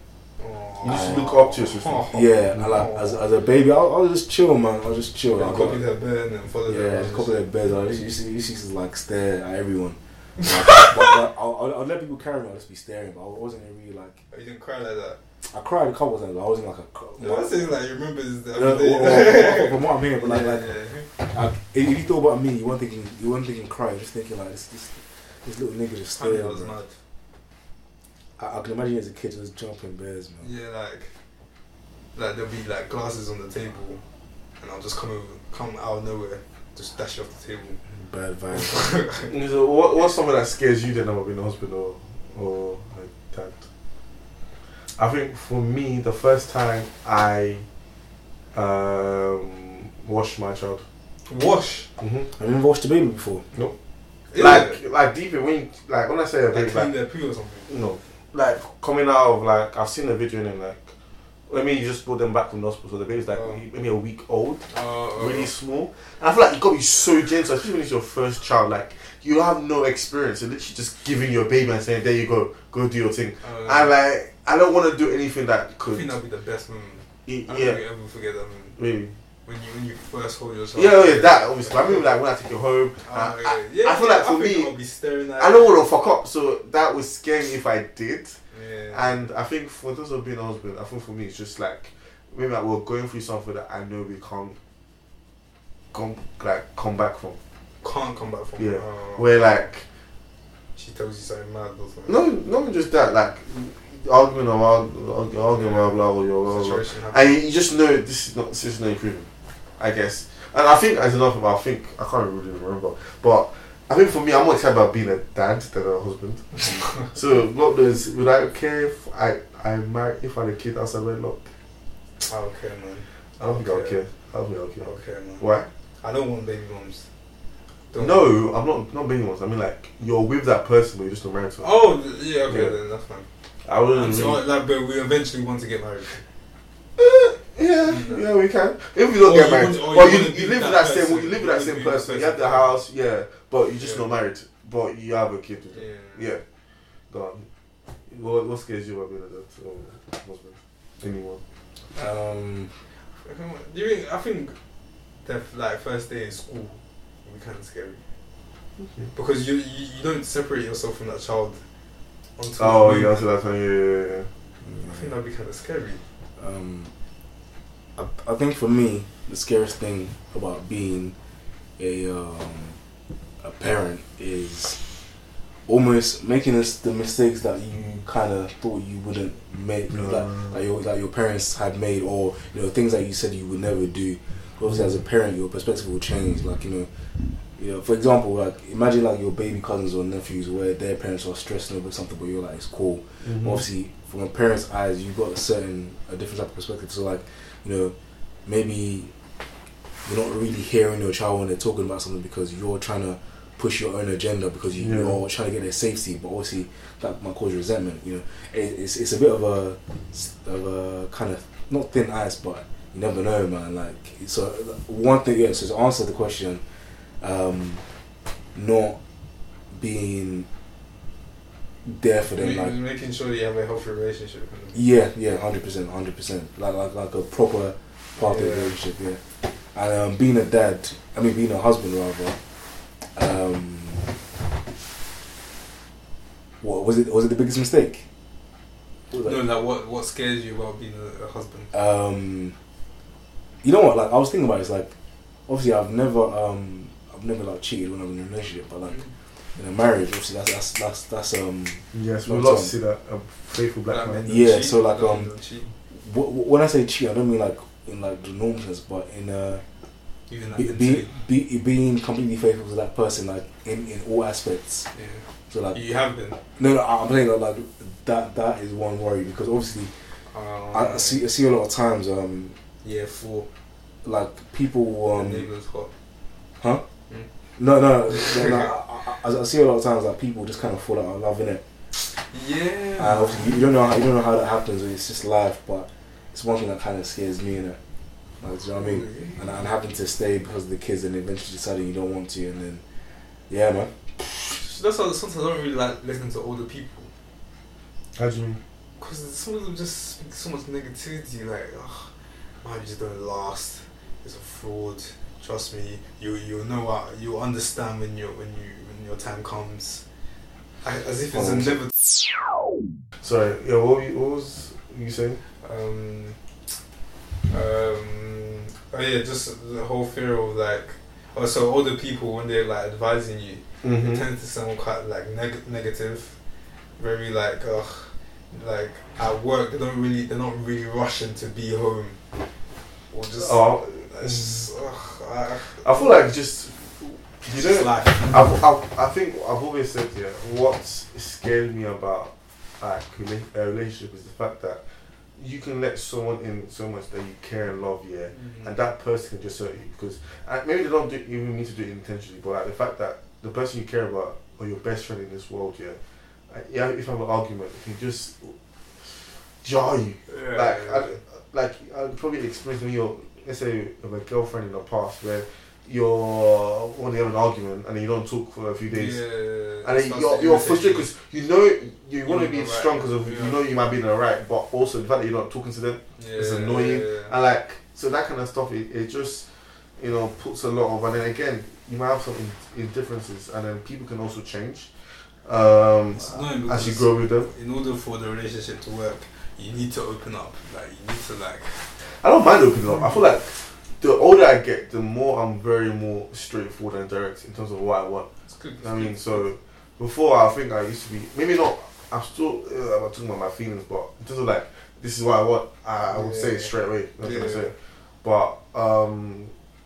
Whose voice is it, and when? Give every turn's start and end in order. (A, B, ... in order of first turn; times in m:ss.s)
0:00.4-0:03.2 A
0:00.8-0:02.1 B
0:00.9-0:01.3 C
0:02.1-0:05.8 C
0:05.3-0:07.4 A
0:06.7-0:14.2 C
0:14.3-0:15.2 A
0:15.5-0:17.6 C
0:17.2-0:21.1 A
0:18.5-0:26.8 C
0:26.2-0:27.0 A
0:28.4-0:30.5 C
0:30.4-0:31.1 A
0:32.1-0:34.0 A
0:34.6-0:37.8 A
0:37.9-0:38.9 C
0:38.5-0:39.3 A
0:39.3-0:43.6 B
0:44.9-0:47.6 B
0:48.5-0:50.8 B
0:51.3-0:51.9 A
0:52.0-0:52.3 B
0:52.4-0:53.5 C
0:54.3-0:54.8 A
0:54.3-0:56.9 B
0:56.5-0:57.8 A
0:57.7-1:00.9 B
1:01.5-1:16.1 B
1:03.3-1:03.6 A
1:04.7-1:05.5 A
1:13.4-1:13.9 A
1:15.8-1:18.8 A
1:17.2-1:17.8 B
1:18.8-1:19.1 B
1:19.4-1:22.1 A
1:20.7-1:24.7 B
1:23.0-1:25.8 A
1:25.4-1:28.4 B
1:28.5-1:29.3 A
1:28.9-1:34.6 B
1:35.9-1:37.4 B
1:37.8-1:39.4 A
1:38.6-1:39.8 B
1:40.7-1:42.2 A
1:42.1-2:01.5 B
1:45.5-1:47.4 A
1:56.7-1:57.0 A
2:02.2-2:04.0 A
2:03.4-2:05.7 B
2:04.8-2:05.4 A
2:06.0-2:07.1 A
2:07.9-2:08.3 A
2:08.0-2:11.7 B
2:11.6-2:13.3 A
2:12.5-2:12.8 B
2:13.6-2:14.4 B
2:13.9-2:16.2 A
2:17.0-2:26.4 B
2:17.8-2:18.3 A
2:19.2-2:22.8 A
2:23.8-2:24.1 A
2:25.7-2:26.3 A
2:27.1-2:27.5 B
2:28.0-2:31.4 B
2:31.9-2:32.8 C
2:33.2-2:34.6 A
2:35.2-2:38.0 A
2:38.8-2:39.1 B
2:39.1-2:41.6 A
2:42.4-2:43.3 A
2:42.6-2:44.3 B
2:44.6-2:45.1 C
2:44.8-2:46.0 A
2:46.4-2:46.9 C
2:48.0-2:51.1 C
2:51.8-2:52.8 C
2:53.4-2:54.8 C
2:55.7-3:06.9 C
2:59.9-3:00.6 B
3:07.6-3:17.9 C
3:13.2-3:13.6 B
3:18.4-3:19.1 C
3:20.0-3:36.6 C
3:24.8-3:25.2 B
3:37.2-3:37.9 C
3:38.5-3:39.0 C
3:39.7-3:40.5 C
3:41.8-3:42.7 C
3:42.4-3:44.8 A
3:44.7-3:52.4 C
3:48.2-3:48.8 A
3:53.0-3:54.1 C
3:56.6-3:58.0 C
3:59.1-3:59.4 C
3:59.2-4:01.7 A
4:01.7-4:02.6 C
4:03.6-4:04.9 C
4:05.5-4:12.7 C
4:11.9-4:14.4 B
4:13.9-4:15.7 A
4:14.2-4:15.3 C
4:15.9-4:19.6 C
4:20.3-4:21.1 A
4:20.5-4:24.9 C
4:24.9-4:26.4 A
4:25.5-4:25.8 C
4:26.6-4:29.9 C
4:30.3-4:31.2 A
4:30.7-4:32.6 C
4:32.8-4:33.5 A
4:34.0-4:35.5 C
4:35.1-4:35.9 A
4:37.6-4:41.6 C
4:38.1-4:38.7 A
4:42.2-4:43.6 A
4:43.0-4:47.8 C
4:48.4-4:52.8 C
4:48.8-4:49.7 A
4:53.5-4:54.4 C
4:54.5-4:57.1 A
4:58.1-4:58.6 B
4:59.0-5:10.0 A
5:10.8-5:11.9 A
5:13.2-5:15.4 B
5:15.6-5:16.4 A
5:17.5-5:26.4 A
5:23.8-5:24.2 B
5:27.0-5:32.2 A
5:33.1-5:36.2 A
5:33.4-5:34.7 B
5:35.7-5:44.8 B
5:37.4-5:38.6 A
5:45.4-6:09.2 B
5:48.3-5:48.7 A
6:00.3-6:01.1 A
6:08.9-6:11.1 A
6:09.8-6:27.5 B
6:12.2-6:13.6 A
6:16.2-6:17.3 A
6:26.1-6:31.9 A
6:32.0-6:38.3 B
6:32.9-6:33.2 A
6:38.5-6:39.4 A
6:38.8-6:49.5 B
6:46.0-6:47.7 A